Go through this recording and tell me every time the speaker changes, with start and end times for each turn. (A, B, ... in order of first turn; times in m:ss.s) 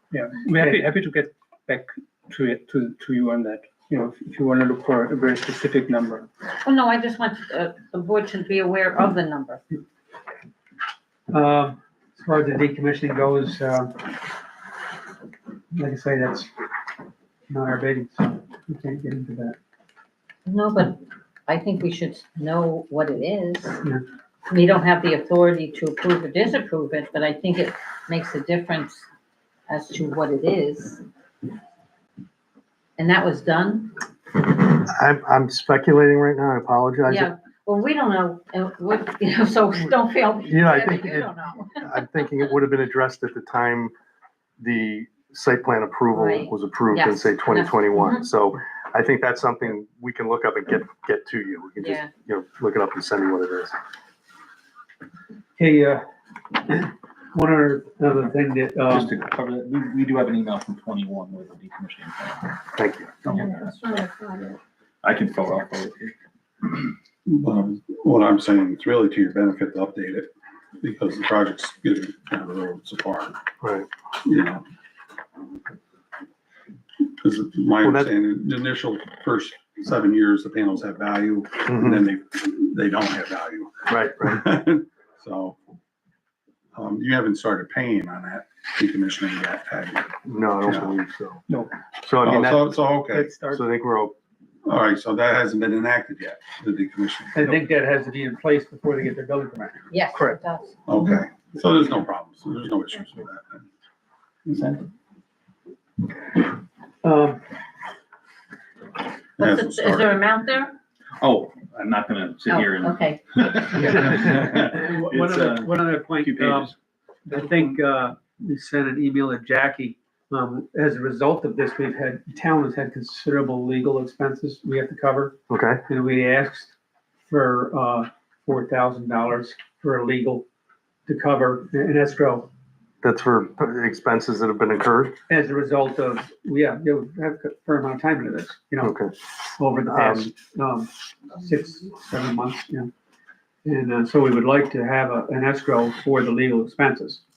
0:00.1-0:06.2 A
0:00.6-0:00.8 B
0:06.6-0:09.6 C
0:11.3-0:14.0 B
0:15.7-0:16.5 B
0:17.5-0:19.6 B
0:20.4-0:23.8 C
0:24.5-0:29.0 C
0:29.7-0:31.0 C
0:33.0-0:33.9 C
0:34.6-0:37.3 D
0:37.1-0:42.1 C
0:40.4-0:43.9 D
0:44.6-0:53.7 D
0:46.1-0:48.2 C
0:51.8-0:52.1 C
0:55.6-0:56.0 B
0:56.5-0:59.2 B
0:58.9-1:02.5 E
1:02.7-1:03.2 D
1:03.2-1:04.0 E
1:05.0-1:06.1 E
1:07.2-1:13.3 F
1:13.6-1:13.9 D
1:14.2-1:14.6 F
1:17.2-1:25.6 F
1:17.8-1:18.1 D
1:21.7-1:22.0 D
1:23.9-1:24.4 D
1:26.7-1:30.9 F
1:30.2-1:31.4 D
1:32.0-1:34.1 D
1:32.2-1:33.3 F
1:34.6-1:37.6 F
1:37.3-1:39.8 B
1:39.9-1:40.8 C
1:40.9-1:43.6 F
1:44.5-1:44.8 E
1:47.0-1:47.4 B
1:49.4-1:50.2 F
1:49.4-1:50.7 C
1:51.2-1:56.7 E
1:52.5-1:54.0 C
1:53.7-1:56.7 B
1:57.3-2:06.7 B
2:05.5-2:05.8 D
2:07.3-2:10.4 B
2:11.1-2:12.5 B
2:13.0-2:15.2 D
2:15.3-2:19.0 B
2:18.8-2:19.1 D
2:19.6-2:22.9 B
2:19.8-2:20.3 D
2:23.6-2:27.2 B